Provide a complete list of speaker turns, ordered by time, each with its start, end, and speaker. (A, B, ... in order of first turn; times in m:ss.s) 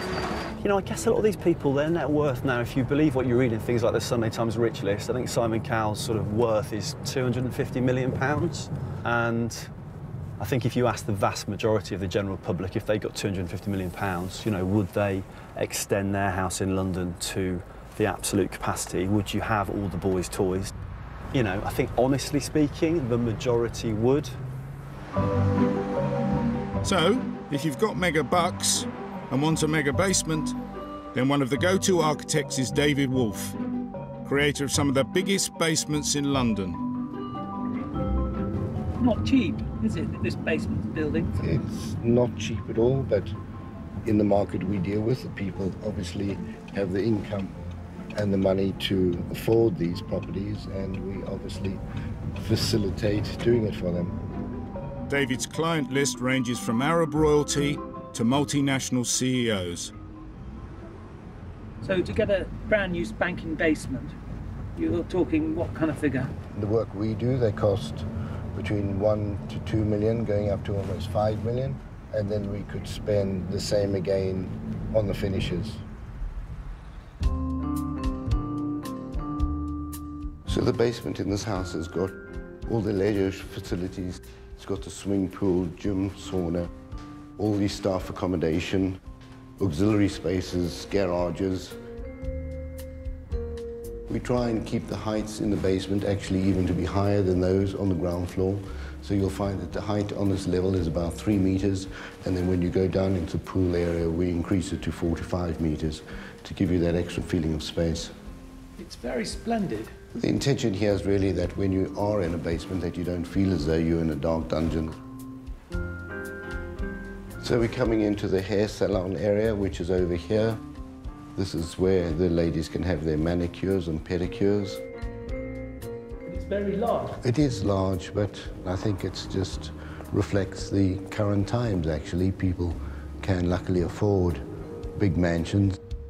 0:00.6-0:09.7 A
0:10.4-0:20.7 A
0:21.3-0:24.4 A
0:26.8-0:30.6 B
0:31.1-0:33.6 B
0:34.2-0:36.8 B
0:39.0-0:41.3 C
0:41.4-0:43.3 D
0:44.0-0:47.5 D
0:48.2-0:51.8 D
0:52.4-0:54.2 D
0:55.1-0:59.9 B
1:01.8-1:04.2 C
1:04.8-1:06.3 C
1:06.5-1:15.8 D
1:20.5-1:26.7 D
1:27.4-1:29.0 D
1:29.6-1:31.8 D
1:34.1-1:48.1 D
1:48.8-1:49.9 C
1:50.2-1:55.0 D
1:57.4-2:00.6 D
2:01.4-2:04.8 D
2:06.2-2:07.2 C
2:07.2-2:14.4 D
2:15.0-2:15.8 D